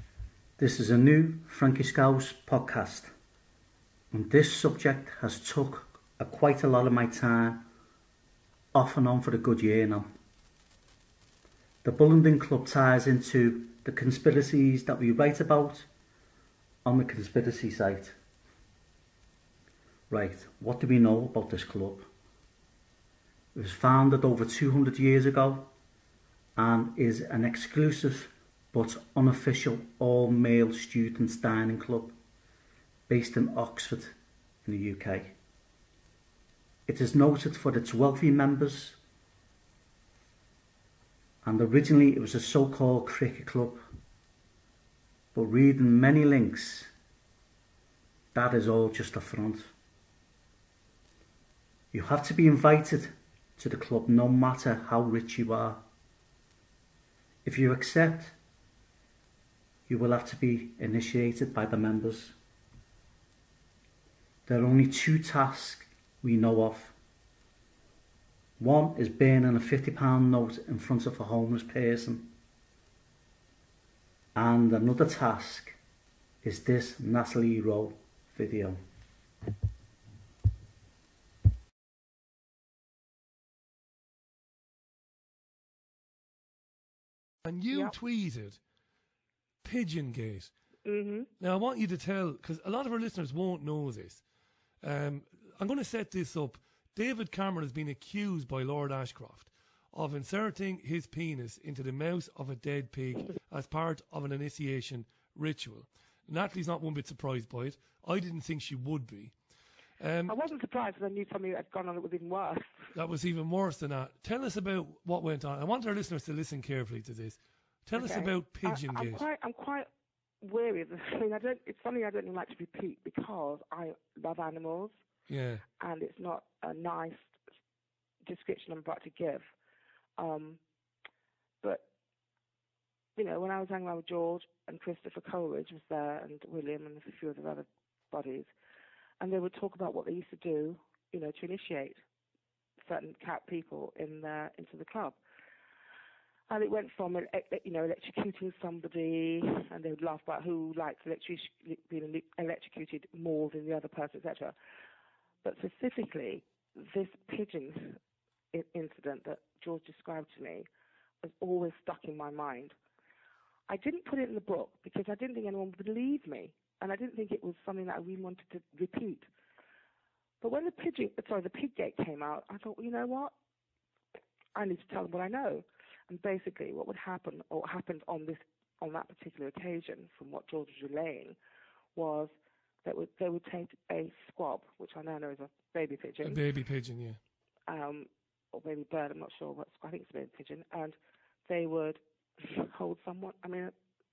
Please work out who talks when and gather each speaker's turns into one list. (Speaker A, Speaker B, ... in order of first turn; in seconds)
Speaker A: 0.6-3.1, 4.1-7.7, 8.7-10.1, 11.8-15.9, 16.9-18.2, 20.1-22.1, 23.6-25.7, 26.6-32.2, 33.1-35.4, 36.9-39.0, 41.4-43.9, 45.3-46.9, 48.3-49.7, 51.9-55.8, 57.4-58.4, 59.9-62.4, 64.5-67.0, 68.6-72.3, 74.3-75.8, 76.4-78.8
Speaker B: 87.5-88.6, 89.6-90.5, 91.4-94.2, 94.8-109.4, 110.0-110.3, 112.9-119.2, 125.3-125.6, 186.2-187.2
Speaker C: 90.8-91.3, 110.3-112.7, 118.0-119.9, 120.4-125.0, 125.8-127.3, 128.3-129.5, 130.2-130.6, 133.2-138.5, 139.2-142.0, 142.9-145.2, 146.5-154.6, 155.4-158.0, 158.5-160.7, 161.2-162.8, 163.7-169.3, 170.4-173.3, 174.6-181.4, 181.9-182.3, 182.8-186.4, 187.7-193.7